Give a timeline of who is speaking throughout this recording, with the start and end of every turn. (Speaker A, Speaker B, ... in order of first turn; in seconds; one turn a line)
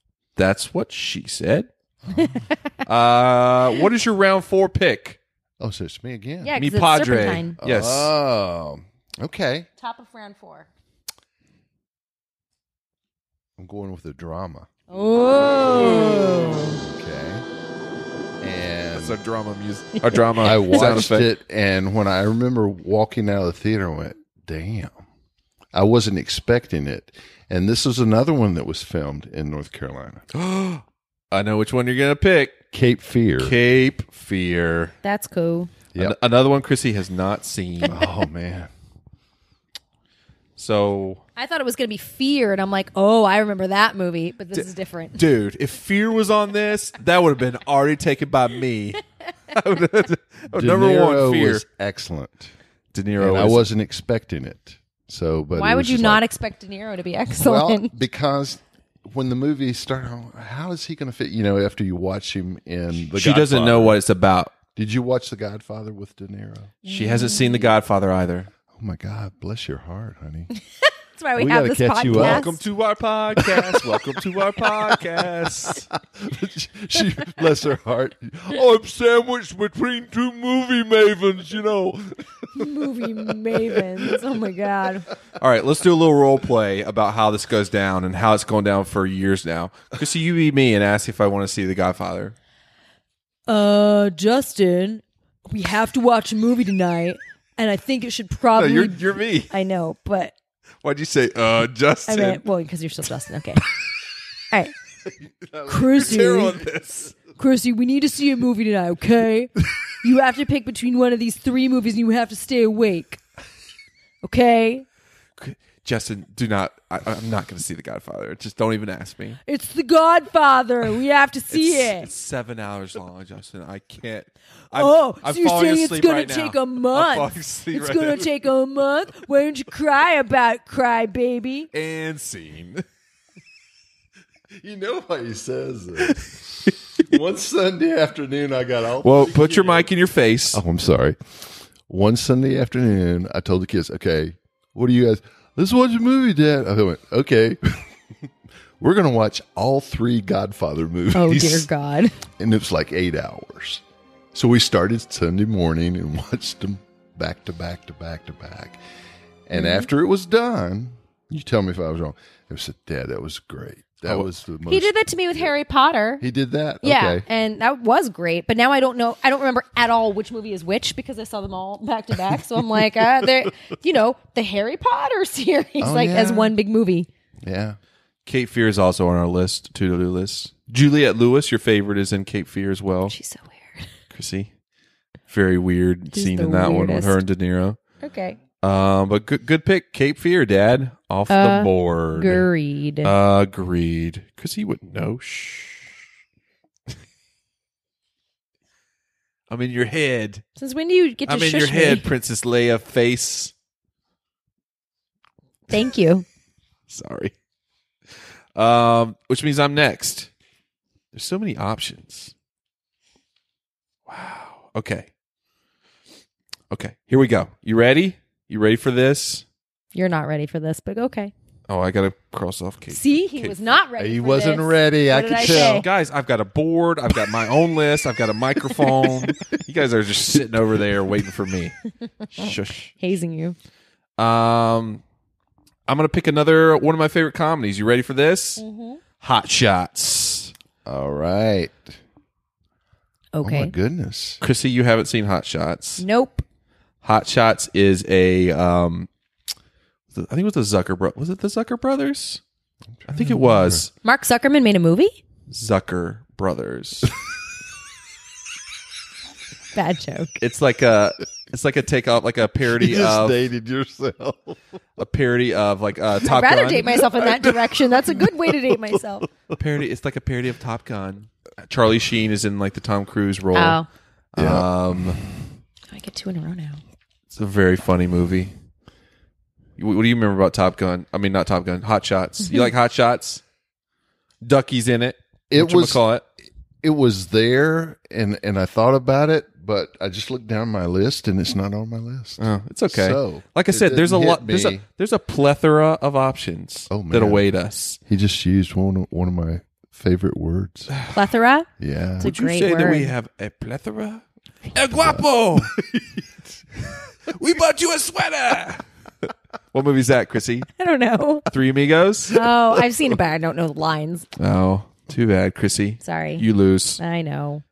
Speaker A: 0.3-1.7
Speaker B: 2.1-2.4
Speaker A: 2.8-5.2
Speaker B: 5.6-6.5
Speaker C: 6.4-7.6
Speaker A: 6.5-8.1
Speaker B: 7.6-9.7
Speaker C: 9.8-10.7
Speaker B: 13.6-14.7
Speaker C: 14.9-16.8
Speaker B: 16.5-17.4
Speaker B: 18.4-19.2
Speaker A: 18.9-21.3
Speaker C: 20.1-20.4
Speaker B: 20.4-25.0
Speaker B: 25.7-30.2
Speaker A: 30.3-32.6
Speaker B: 32.7-33.5
Speaker A: 33.4-34.9
Speaker C: 35.0-35.7
Speaker A: 36.0-38.0
Speaker B: 37.9-38.7
Speaker A: 40.6-41.2
Speaker C: 41.4-45.2
Speaker A: 44.5-51.6
Speaker B: 50.5-52.5
Speaker A: 52.9-53.7
Speaker B: 53.2-56.2
Speaker C: 55.5-57.9
Speaker B: 57.3-64.0
Speaker A: 63.1-64.5
Speaker B: 64.7-66.8
Speaker C: 66.8-67.7
Speaker A: 66.9-68.5
Speaker B: 68.7-70.5
Speaker C: 70.5-72.6
Speaker B: 71.3-72.5
Speaker A: 72.1-75.9
Speaker B: 73.3-84.1
Speaker C: 82.5-85.1
Speaker A: 85.4-92.3
Speaker C: 93.5-100.3
Speaker A: 98.5-99.5
Speaker A: 100.8-102.4
Speaker C: 102.1-103.6
Speaker B: 105.5-106.6
Speaker C: 105.7-106.6
Speaker A: 105.9-107.1
Speaker C: 107.2-113.2
Speaker C: 114.2-114.8
Speaker A: 115.4-119.4
Speaker C: 119.5-122.1
Speaker A: 121.5-128.3
Speaker C: 124.7-131.7
Speaker A: 131.7-132.8
Speaker B: 134.5-139.9
Speaker A: 139.0-140.6
Speaker B: 140.5-147.8
Speaker B: 148.8-151.7
Speaker C: 151.1-152.1
Speaker B: 152.4-158.8
Speaker B: 159.5-165.5
Speaker C: 159.5-159.9
Speaker C: 164.7-166.2
Speaker B: 166.2-167.2
Speaker C: 166.8-177.1
Speaker B: 175.8-176.6
Speaker B: 177.4-177.8
Speaker A: 178.2-183.1
Speaker C: 183.1-183.9
Speaker A: 184.1-184.5
Speaker A: 185.3-187.8
Speaker C: 186.1-187.2
Speaker C: 188.0-188.4
Speaker A: 188.6-192.5
Speaker C: 191.3-193.1
Speaker A: 193.0-196.0
Speaker A: 199.5-200.4
Speaker C: 200.6-202.1
Speaker A: 201.3-203.5
Speaker C: 205.7-206.2
Speaker A: 206.9-207.3
Speaker A: 208.6-210.3
Speaker A: 211.1-212.3
Speaker A: 214.1-215.1
Speaker A: 216.7-219.4
Speaker C: 219.9-221.3
Speaker A: 221.7-223.6
Speaker C: 222.9-225.9
Speaker B: 224.0-225.9
Speaker A: 225.4-231.8
Speaker A: 232.3-232.9
Speaker C: 232.4-233.6
Speaker A: 234.2-235.0
Speaker A: 235.9-238.6
Speaker C: 238.6-239.0
Speaker A: 239.2-240.5
Speaker B: 240.8-242.0
Speaker C: 243.3-243.7
Speaker B: 243.4-244.4
Speaker A: 244.4-246.0
Speaker C: 246.0-246.4
Speaker A: 247.0-249.1
Speaker A: 250.1-252.4
Speaker B: 253.0-253.8
Speaker A: 253.1-253.9
Speaker C: 254.0-255.2
Speaker A: 255.5-257.1
Speaker C: 259.7-260.3
Speaker A: 260.4-263.4
Speaker B: 262.6-264.6
Speaker A: 265.0-267.0
Speaker C: 266.2-269.3
Speaker B: 267.1-267.7
Speaker B: 268.4-268.9
Speaker A: 269.5-273.8
Speaker C: 273.5-273.9
Speaker A: 274.3-275.2
Speaker B: 274.4-275.2
Speaker C: 275.9-276.8
Speaker A: 277.3-278.5
Speaker A: 279.8-283.4
Speaker A: 284.4-286.2
Speaker B: 285.5-286.0
Speaker B: 286.8-294.8
Speaker A: 292.4-298.0
Speaker B: 296.9-297.4
Speaker B: 298.1-300.9
Speaker A: 300.9-301.1
Speaker C: 301.1-301.7
Speaker B: 301.8-302.3
Speaker C: 302.2-303.1
Speaker A: 302.2-305.7
Speaker B: 305.0-306.2
Speaker A: 307.3-308.9
Speaker A: 309.7-310.7
Speaker C: 310.8-311.4
Speaker A: 311.5-312.4
Speaker C: 312.3-314.3
Speaker A: 314.4-317.0
Speaker C: 316.0-316.4
Speaker C: 317.0-317.6